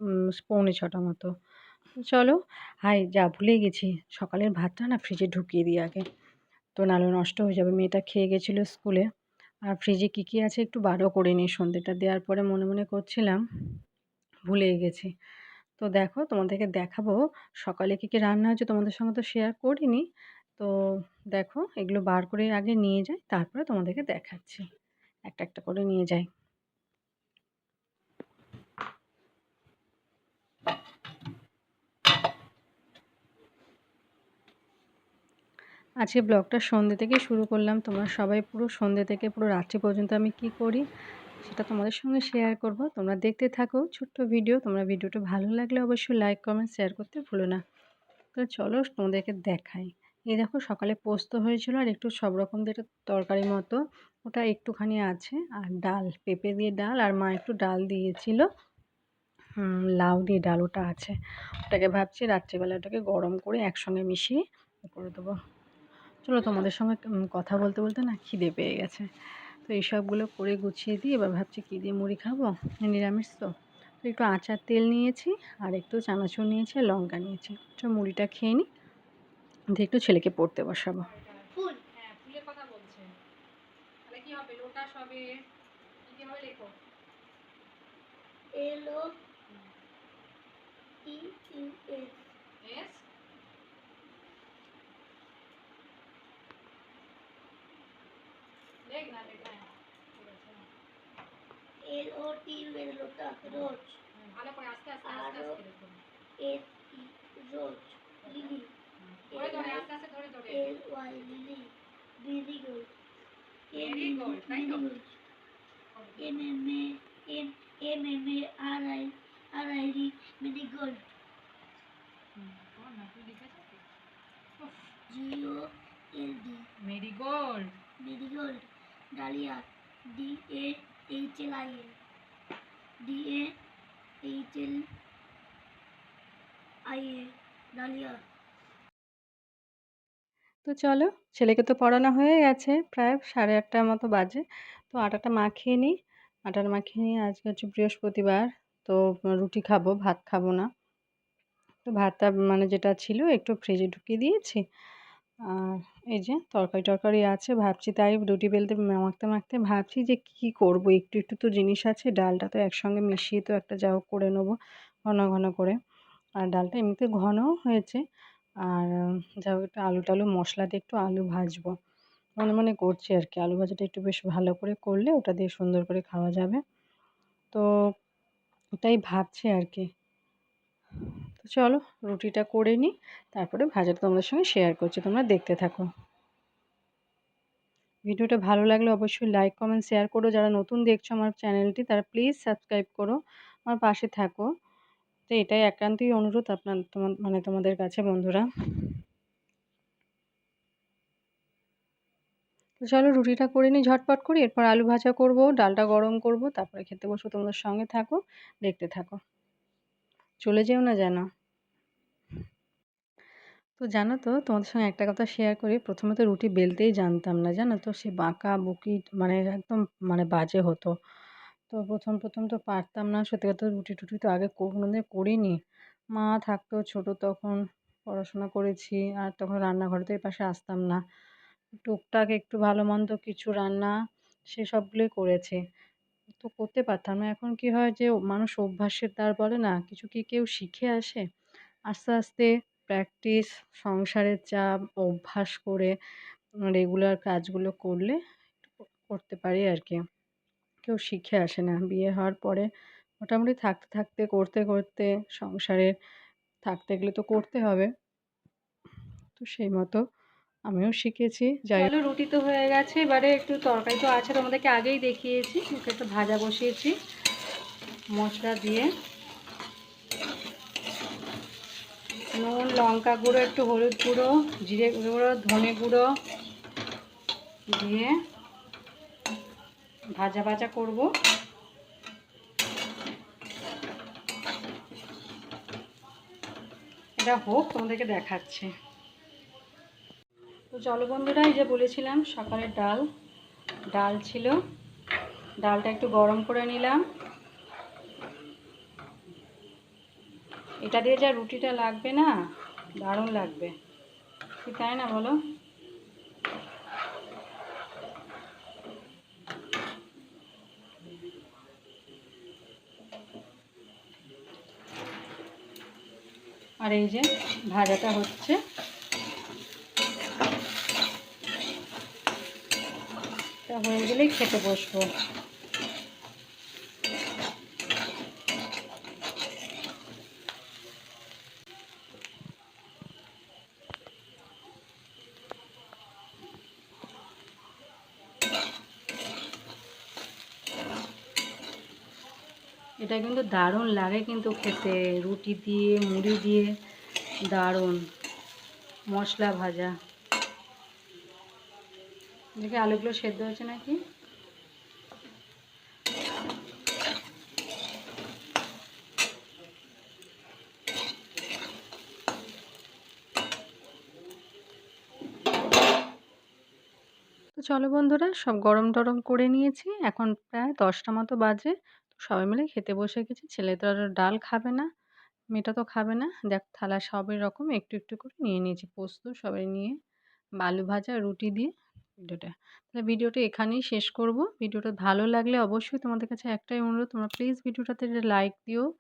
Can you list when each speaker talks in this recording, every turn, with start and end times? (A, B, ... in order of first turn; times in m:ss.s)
0:00.3-0:01.3 A
0:02.0-0:06.0 A
0:06.8-0:09.0 A
0:09.7-0:13.4 A
0:14.5-0:15.1 A
0:15.8-0:20.0 A
0:21.3-0:24.6 A
0:25.3-0:26.3 A
0:36.0-0:40.8 A
0:41.4-0:47.6 A
0:48.4-0:58.4 A
0:59.6-1:01.1 A
1:01.7-1:05.3 A
1:06.2-1:09.1 A
1:09.7-1:13.5 A
1:14.0-1:18.6 A
1:19.8-1:21.1 A
1:21.1-1:23.1 B
1:21.6-1:21.8 C
1:24.1-1:25.3 B
1:26.1-1:26.7 B
1:28.6-1:29.1 C
1:31.0-1:32.3 C
1:32.6-1:33.0 B
1:38.9-1:40.6 B
1:41.9-1:44.0 C
1:44.2-1:46.0 B
1:45.0-1:45.6 C
1:46.4-1:48.7 C
1:48.2-1:50.7 B
1:49.3-1:49.9 C
1:50.5-1:52.9 C
1:53.7-1:55.2 C
1:53.7-1:54.9 B
1:56.2-2:01.1 C
2:02.4-2:03.8 B
2:05.1-2:06.7 C
2:06.8-2:07.7 B
2:08.0-2:12.0 C
2:13.0-2:13.5 C
2:14.2-2:14.8 C
2:16.9-2:18.2 C
2:20.6-2:25.9 A
2:26.5-2:30.7 A
2:31.9-2:34.6 A
2:35.5-2:44.6 A
2:45.1-2:45.8 A
2:46.4-2:48.0 A
2:48.7-2:51.7 A
2:52.4-2:56.6 A
2:58.8-2:59.9 A
3:01.4-3:05.9 A
3:08.1-3:14.5 A
3:15.3-3:18.4 A
3:22.8-3:29.2 A
3:30.4-3:31.2 A
3:33.8-3:40.9 A
3:41.7-3:45.6 A
3:46.1-3:51.0 A
3:51.8-3:53.9 A
3:54.5-3:55.6 A
3:56.4-4:01.2 A
4:01.9-4:05.9 A
4:06.7-4:08.2 A
4:09.1-4:10.0 A
4:10.8-4:12.7 A
4:13.2-4:15.9 A
4:16.6-4:17.9 A
4:19.4-4:20.0 A
4:20.7-4:26.9 A
4:28.2-4:28.9 A
4:32.4-4:36.1 A
4:37.7-4:38.1 A
4:40.2-4:41.1 A
4:47.2-4:48.7 A
4:50.7-4:53.0 A
4:53.9-4:54.5 A
4:55.6-4:57.0 A
5:00.8-5:02.3 A
5:03.0-5:03.7 A
5:04.6-5:05.3 A
5:16.8-5:18.6 A
5:23.7-5:25.1 A
5:43.0-5:46.7 A
5:47.5-5:48.0 A
5:49.1-5:49.9 A
5:52.6-5:54.0 A
6:07.6-6:14.9 A
6:15.5-6:20.0 A
6:20.6-6:21.7 A
6:22.2-6:28.8 A